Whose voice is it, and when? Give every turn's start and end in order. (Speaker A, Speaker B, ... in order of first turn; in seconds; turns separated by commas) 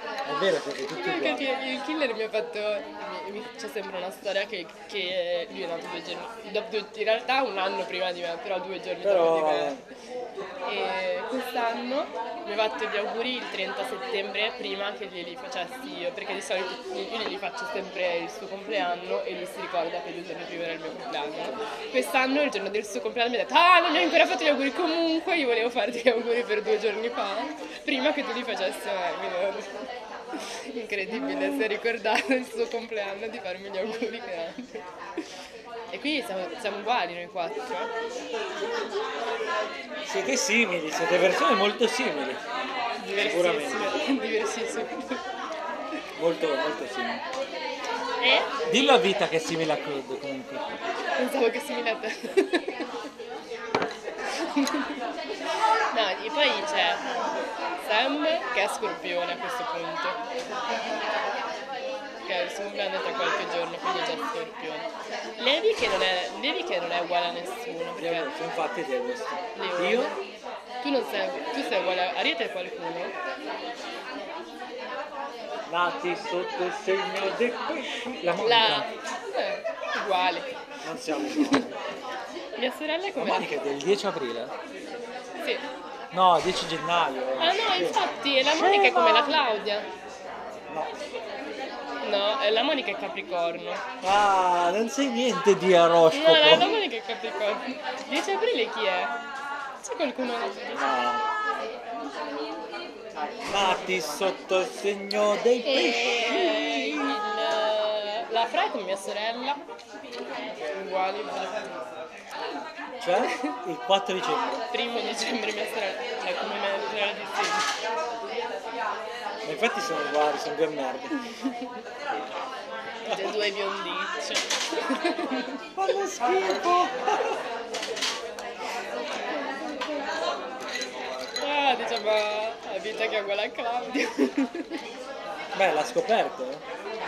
Speaker A: 0.2-1.5, Speaker B: 0.9-9.8, Speaker A: 9.0-9.8, Speaker B: 10.6-29.8, Speaker B: 30.3-34.8, Speaker B: 35.9-37.9, Speaker A: 40.0-42.4, Speaker B: 43.0-45.2, Speaker A: 43.1-43.9, Speaker A: 46.2-47.2, Speaker B: 48.2-48.7, Speaker A: 48.7-50.7, Speaker B: 51.2-52.9, Speaker B: 54.3-55.0, Speaker B: 55.9-57.0, Speaker B: 57.8-60.2, Speaker B: 62.2-68.3, Speaker A: 68.0-70.1, Speaker B: 69.5-70.2, Speaker B: 70.8-73.1, Speaker A: 75.7-78.9, Speaker B: 78.4-80.5, Speaker A: 80.8-81.8, Speaker B: 81.3-81.6, Speaker B: 82.6-83.5, Speaker A: 83.2-84.5, Speaker A: 86.1-89.4, Speaker B: 87.4-89.9, Speaker A: 90.7-90.9, Speaker B: 92.0-93.8, Speaker A: 94.0-96.8, Speaker B: 96.1-99.1, Speaker B: 99.8-100.9, Speaker A: 100.7-101.2, Speaker A: 103.5-107.2, Speaker B: 105.6-109.6, Speaker B: 110.7-111.8, Speaker A: 113.0-114.6, Speaker B: 113.2-113.5, Speaker B: 114.7-117.7, Speaker A: 119.4-121.2, Speaker B: 121.3-121.7, Speaker B: 123.0-125.6, Speaker A: 123.1-123.4, Speaker A: 125.8-127.4, Speaker B: 129.3-130.1, Speaker B: 131.4-134.8, Speaker A: 135.5-136.6